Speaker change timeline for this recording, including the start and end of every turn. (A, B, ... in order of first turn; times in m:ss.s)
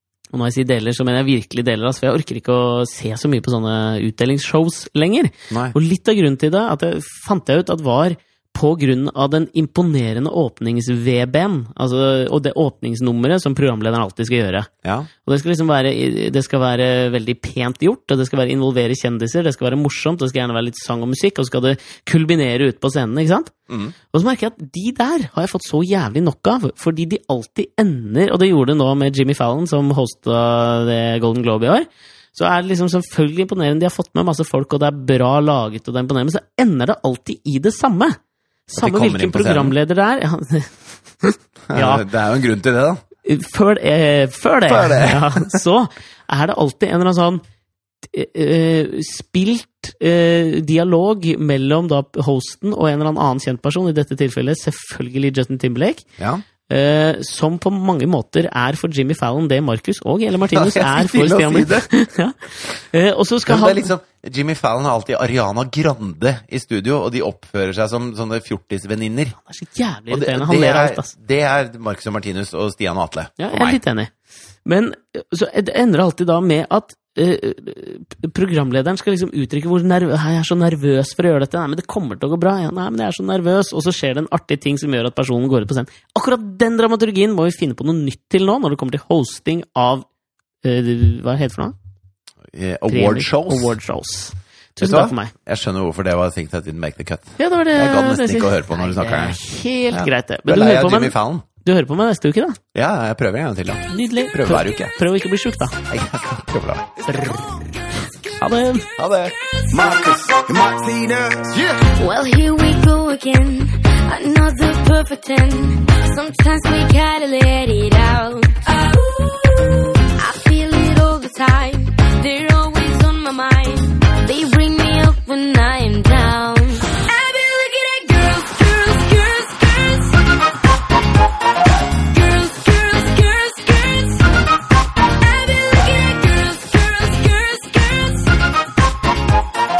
0:00.3-0:14.7 A
0:05.5-0:05.8 B
0:14.8-0:15.1 B
0:15.2-0:23.5 A
0:23.7-0:24.0 B
0:24.1-0:38.2 A
0:38.7-0:42.0 A
0:38.8-0:39.7 B
0:41.7-0:43.0 B
0:43.2-0:47.4 A
0:44.7-0:45.6 B
0:48.0-0:56.0 A
0:56.2-0:56.4 B
0:56.7-1:03.9 A
1:00.5-1:01.9 B
1:03.5-1:09.4 B
1:09.4-1:11.1 A
1:10.1-1:13.8 B
1:13.4-1:14.1 A
1:14.6-1:30.1 A
1:30.6-1:31.8 A
1:32.5-1:33.8 B
1:32.9-1:35.3 A
1:34.8-1:39.4 B
1:37.4-1:42.6 A
1:39.9-1:41.5 B
1:42.7-1:45.0 B
1:43.9-1:45.8 A
1:45.9-1:47.0 B
1:47.1-1:47.5 A
1:48.2-1:48.9 A
1:49.0-1:49.4 B
1:49.7-1:51.9 C
1:51.9-2:10.7 D
2:11.9-2:18.6 D